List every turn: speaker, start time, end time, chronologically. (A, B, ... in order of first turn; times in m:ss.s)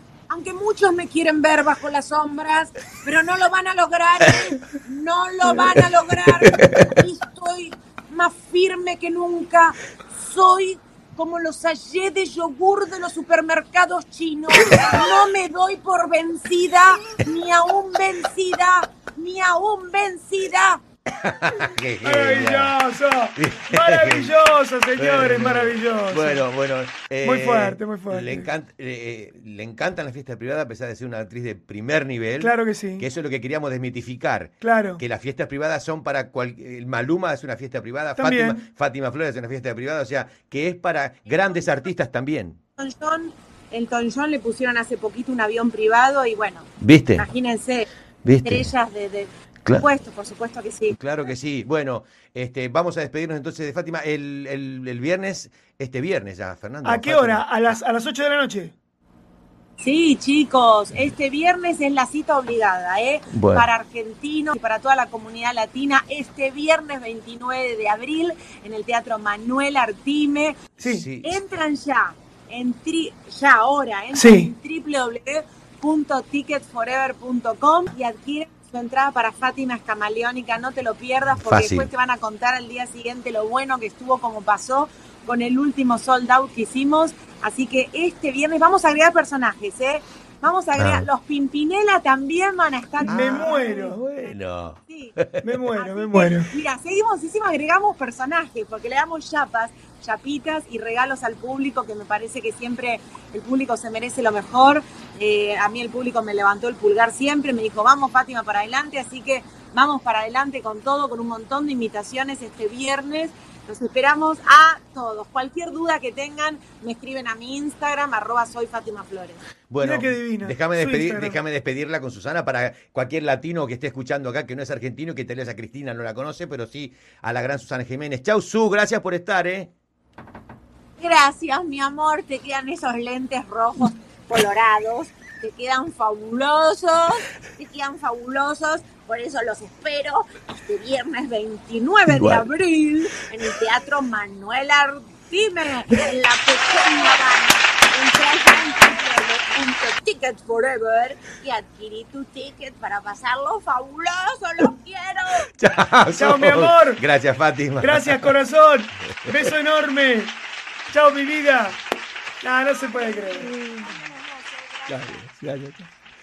0:00.3-0:20.8 A
0:05.5-0:05.8 B
0:06.4-0:06.9 B
0:21.1-0:22.8 B
0:22.0-0:26.4 C
0:23.4-0:24.4 B
0:25.0-0:42.6 B
0:27.2-0:28.5 C
0:32.4-0:33.1 C
0:34.6-0:35.0 C
0:38.2-0:38.6 C
0:42.8-0:47.9 A
0:46.8-0:47.3 B
0:48.2-0:48.7 B
0:48.4-0:51.0 A
0:51.0-0:57.8 B
0:56.8-0:58.7 C
0:59.8-1:10.6 A
1:03.3-1:03.7 B
1:10.8-1:11.1 C
1:10.8-1:11.4 B
1:11.2-1:34.4 A
1:14.1-1:14.5 C
1:21.4-1:21.9 B
1:30.8-1:31.1 B
1:33.0-1:34.0 C
1:33.0-1:35.5 B
1:34.9-1:35.2 A
1:35.4-1:36.5 C
1:35.7-1:59.4 A
1:59.7-2:09.7 B
1:59.8-2:01.4 C
2:11.0-2:35.5 A
2:22.1-2:22.4 B
2:35.5-2:38.4 B
2:36.1-2:37.0 C
2:37.8-2:40.4 C
2:39.2-2:39.5 B
2:40.9-2:41.8 C
2:42.4-2:43.6 C
2:42.9-2:45.2 A
2:44.9-2:45.9 B